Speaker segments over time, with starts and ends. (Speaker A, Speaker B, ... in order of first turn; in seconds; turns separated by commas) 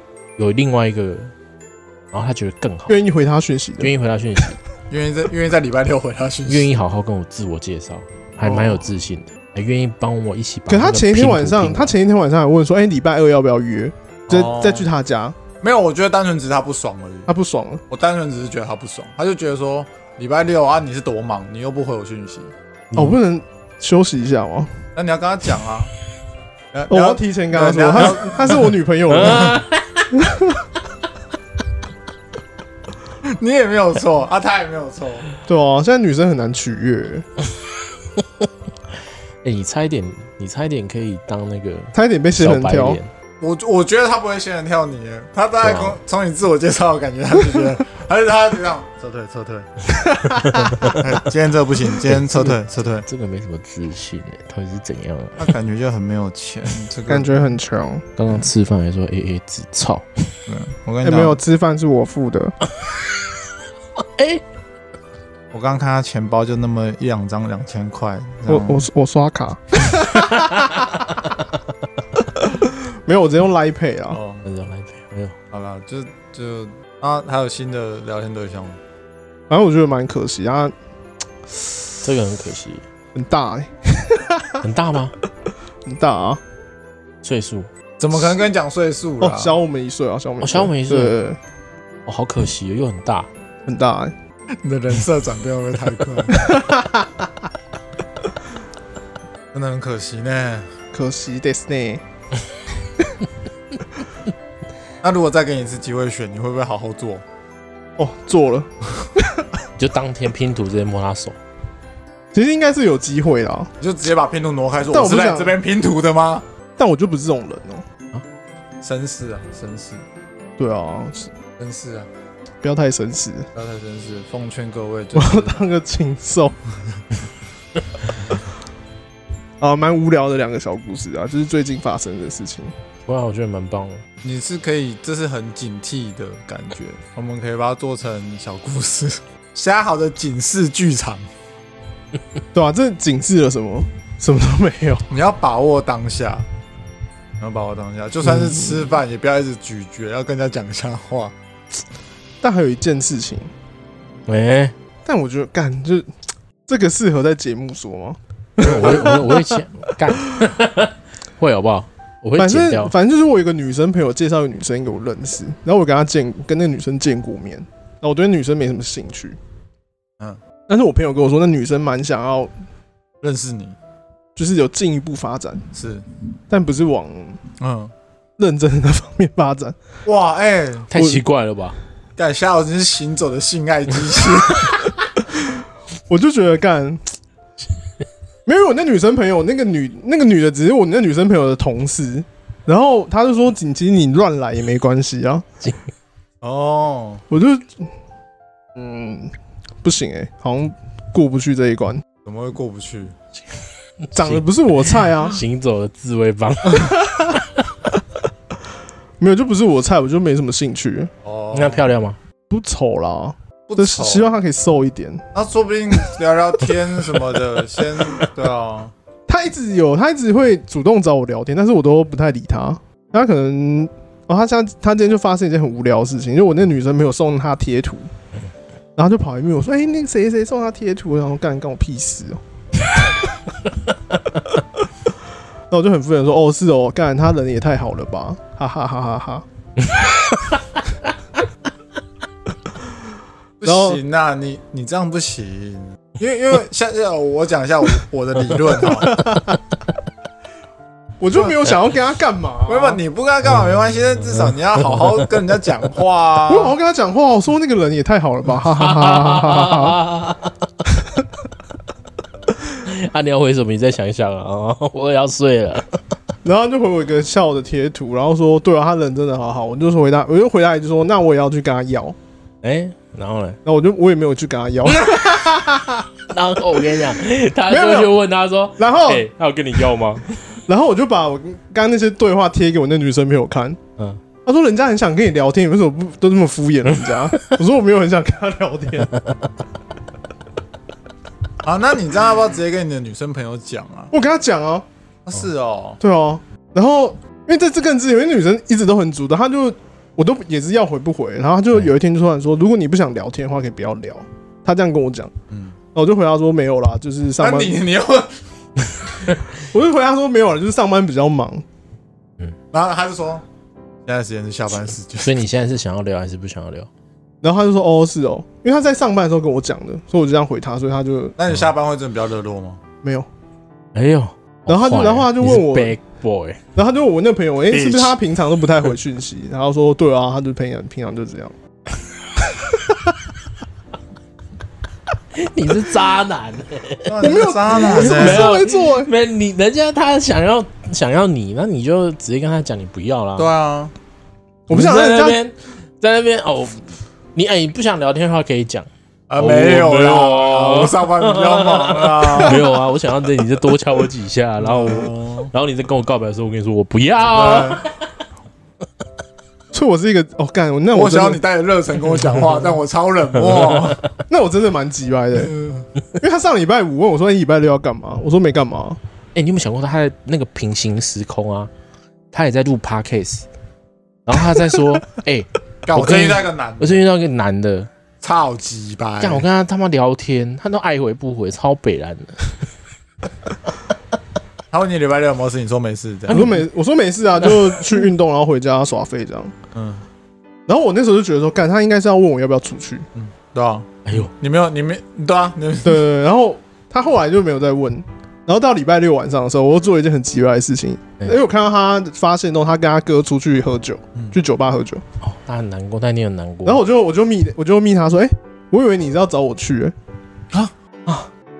Speaker A: 0.4-1.3, Speaker A: 2.1-3.0, Speaker B: 2.9-3.9, Speaker A: 3.8-4.6, Speaker C: 4.9-6.7, Speaker A: 6.5-11.9, Speaker B: 8.4-8.7, Speaker B: 10.7-15.4, Speaker C: 14.3-14.9, Speaker C: 15.6-17.3, Speaker B: 17.3-17.8, Speaker C: 17.9-22.5, Speaker A: 22.9-23.2, Speaker B: 22.9-24.7, Speaker C: 24.9-25.9, Speaker C: 26.7-29.6, Speaker B: 26.9-29.6, Speaker A: 29.1-30.1, Speaker B: 30.1-30.7, Speaker C: 33.2-35.3, Speaker B: 35.4-37.2, Speaker A: 39.4-43.1, Speaker B: 41.9-43.0, Speaker C: 43.4-49.8, Speaker A: 45.6-46.0, Speaker A: 50.2-51.0, Speaker B: 50.3-50.8, Speaker C: 50.8-53.0, Speaker A: 52.1-55.5, Speaker C: 55.4-57.4, Speaker B: 57.1-58.0, Speaker A: 58.2-60.1, Speaker C: 60.5-61.4, Speaker B: 61.0-62.5, Speaker A: 64.0-64.4, Speaker C: 65.5-68.9, Speaker B: 68.5-70.7, Speaker A: 70.1-71.0, Speaker B: 72.4-74.2, Speaker C: 74.1-74.4, Speaker A: 74.4-75.3, Speaker C: 75.5-78.8, Speaker B: 79.5-80.7, Speaker A: 82.0-82.8, Speaker B: 83.1-84.6, Speaker A: 84.6-85.1, Speaker B: 85.8-86.4, Speaker A: 87.2-87.7, Speaker C: 88.0-89.6, Speaker B: 89.2-91.4, Speaker A: 90.4-91.2, Speaker A: 92.0-93.3, Speaker B: 93.7-94.1, Speaker C: 94.6-96.5, Speaker B: 96.4-97.1, Speaker C: 99.5-100.7, Speaker B: 100.9-102.0, Speaker C: 105.0-107.2, Speaker B: 108.0-109.5, Speaker A: 109.8-111.4, Speaker B: 112.3-113.7, Speaker C: 113.8-116.4, Speaker B: 114.9-115.6, Speaker B: 116.8-117.8, Speaker C: 118.8-120.0, Speaker B: 120.6-121.3, Speaker C: 121.6-122.1, Speaker B: 122.6-123.5, Speaker C: 123.5-125.6, Speaker B: 125.1-126.5, Speaker B: 129.6-132.7, Speaker A: 133.1-134.0, Speaker C: 134.2-141.3, Speaker B: 142.5-145.1, Speaker C: 145.1-146.4, Speaker C: 147.4-151.3, Speaker B: 152.4-153.5, Speaker A: 154.3-154.7, Speaker B: 155.0-156.1, Speaker B: 156.7-159.6, Speaker A: 158.6-162.9, Speaker B: 162.4-169.4, Speaker B: 170.7-172.5, Speaker C: 173.2-173.8, Speaker B: 174.3-175.7, Speaker C: 175.7-176.0, Speaker B: 176.5-177.4, Speaker C: 177.6-177.9, Speaker B: 178.4-179.8, Speaker C: 180.1-180.9, Speaker A: 180.9-181.8, Speaker B: 180.9-181.2, Speaker C: 182.2-184.9, Speaker B: 185.3-187.1, Speaker B: 188.4-195.4, Speaker C: 196.4-197.2, Speaker B: 197.3-197.9, Speaker B: 198.7-202.0, Speaker C: 202.2-203.1, Speaker A: 204.1-207.5, Speaker B: 204.1-205.4, Speaker B: 206.8-207.3, Speaker B: 209.2-211.1, Speaker C: 211.2-211.9, Speaker A: 211.5-212.2, Speaker B: 212.5-215.3, Speaker C: 213.7-214.3, Speaker C: 215.3-218.9, Speaker B: 219.3-228.1, Speaker B: 228.9-232.4, Speaker B: 235.7-239.4, Speaker A: 240.3-240.6, Speaker C: 243.6-249.3, Speaker B: 243.6-244.0, Speaker B: 249.0-249.5, Speaker B: 251.2-253.0, Speaker C: 252.7-256.7, Speaker A: 254.8-255.2, Speaker B: 256.5-260.0, Speaker A: 258.7-260.6, Speaker A: 262.8-266.0, Speaker B: 266.4-272.1, Speaker A: 272.6-273.6, Speaker B: 273.6-276.0, Speaker A: 274.9-275.6, Speaker A: 276.3-280.3, Speaker B: 277.7-278.2, Speaker B: 278.8-279.3, Speaker B: 280.7-283.8, Speaker B: 284.4-289.1, Speaker C: 291.6-294.1, Speaker B: 294.1-294.9, Speaker C: 295.3-296.0, Speaker B: 296.0-305.3, Speaker C: 305.5-305.8, Speaker B: 305.9-307.8, Speaker C: 307.4-308.3, Speaker B: 309.6-311.6, Speaker C: 312.7-313.4, Speaker C: 314.1-315.4, Speaker A: 315.2-316.9, Speaker B: 317.4-321.4, Speaker C: 321.4-322.8, Speaker B: 323.0-323.3, Speaker A: 323.9-326.6, Speaker B: 324.7-326.0, Speaker B: 326.8-331.5, Speaker C: 327.7-328.1, Speaker B: 332.7-333.0, Speaker A: 335.3-337.1, Speaker C: 337.1-338.5, Speaker B: 337.2-339.1, Speaker A: 337.7-343.5, Speaker C: 343.4-343.9, Speaker B: 344.7-345.4, Speaker A: 344.7-357.9, Speaker C: 349.3-352.6, Speaker C: 354.6-355.5, Speaker C: 357.3-357.8, Speaker B: 359.7-361.4, Speaker C: 360.9-364.0, Speaker B: 364.3-365.5, Speaker C: 365.4-365.9, Speaker B: 366.2-369.0, Speaker A: 369.3-371.7, Speaker A: 372.3-373.4, Speaker A: 374.2-377.9, Speaker C: 375.9-377.0, Speaker C: 378.2-379.4, Speaker A: 379.2-382.5, Speaker C: 384.7-386.5, Speaker B: 386.3-389.5, Speaker A: 386.3-386.6, Speaker A: 387.4-387.8, Speaker C: 389.7-390.0, Speaker B: 390.7-393.1, Speaker C: 393.1-396.1, Speaker A: 394.1-394.3, Speaker B: 395.8-405.0, Speaker A: 405.2-406.8, Speaker B: 406.6-409.9